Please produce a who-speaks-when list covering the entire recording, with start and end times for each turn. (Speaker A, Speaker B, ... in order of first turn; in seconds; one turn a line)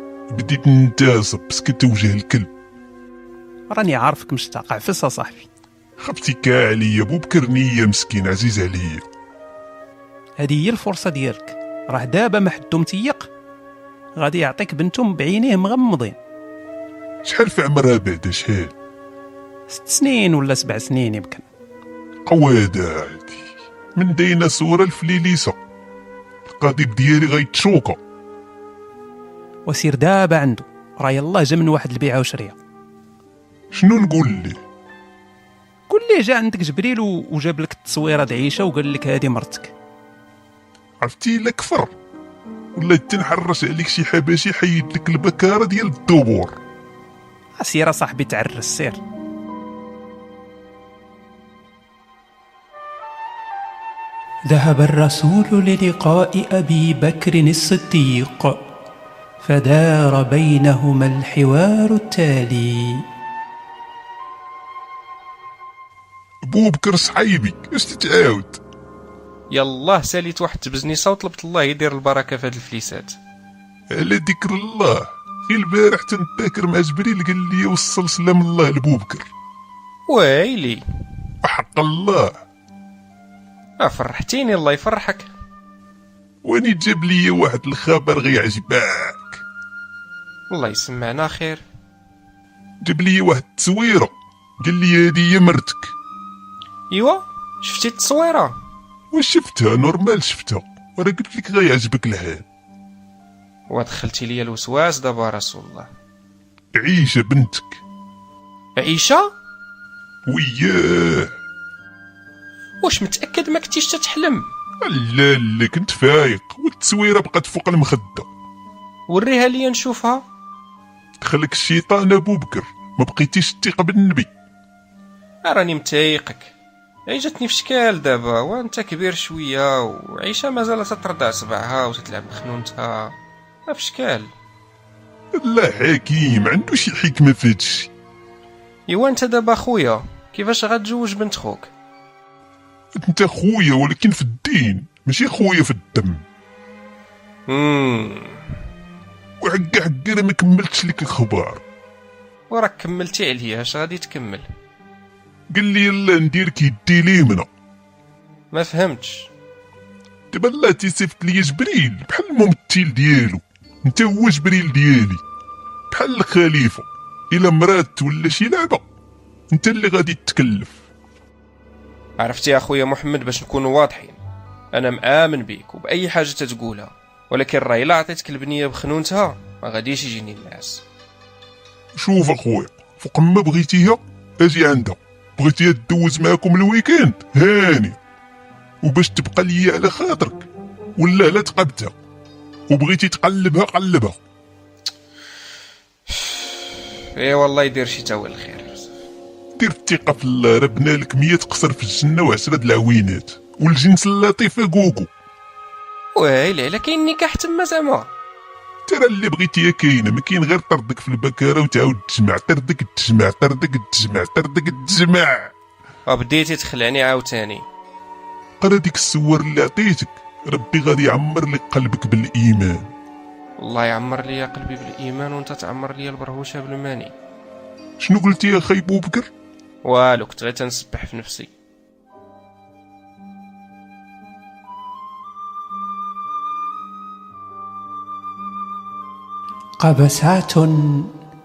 Speaker A: 0.3-2.5
Speaker B: 3.7-5.5
Speaker A: 6.0-9.0
Speaker B: 10.4-13.3
Speaker B: 14.2-16.2
Speaker A: 17.2-18.7
Speaker B: 19.7-21.5
Speaker A: 22.2-25.6
Speaker A: 26.6-28.0
Speaker B: 29.7-32.5
Speaker A: 33.7-34.6
Speaker B: 35.9-39.7
Speaker A: 41.0-41.9
Speaker A: 42.7-46.6
Speaker B: 47.6-49.0
Speaker B: 54.5-58.6
Speaker B: 59.4-63.0
Speaker A: 66.5-68.6
Speaker C: 69.5-73.2
Speaker A: 73.9-79.3
Speaker C: 80.1-80.8
Speaker A: 81.4-82.4
Speaker C: 83.8-85.3
Speaker A: 86.4-89.4
Speaker C: 90.5-91.6
Speaker A: 92.8-95.9
Speaker C: 96.9-98.5
Speaker A: 99.1-102.4
Speaker C: 103.7-105.9
Speaker A: 106.8-107.8
Speaker C: 108.8-109.3
Speaker A: 110.2-111.3
Speaker C: 112.8-114.5
Speaker A: 114.8-118.3
Speaker C: 119.1-120.2
Speaker A: 121.2-124.3
Speaker C: 125.4-126.5
Speaker C: 127.1-133.1
Speaker C: 133.7-134.3
Speaker A: 135.3-137.9
Speaker C: 138.9-141.7
Speaker A: 142.9-146.2
Speaker C: 147.5-148.4
Speaker A: 149.4-151.6
Speaker C: 152.5-154.5
Speaker A: 155.5-157.5
Speaker C: 158.5-159.3
Speaker A: 160.3-165.2
Speaker A: 165.9-168.8
Speaker A: 169.5-170.8
Speaker C: 172.2-174.2
Speaker C: 174.7-180.8
Speaker A: 181.9-188.0
Speaker A: 188.8-191.9
Speaker A: 192.7-194.2
Speaker C: 196.1-198.9
Speaker A: 199.6-205.1
Speaker C: 206.2-208.1
Speaker A: 208.9-215.5
Speaker C: 216.1-217.6
Speaker A: 218.6-222.9
Speaker C: 223.6-227.1
Speaker A: 228.0-229.3
Speaker C: 229.8-231.5
Speaker B: 239.8-241.1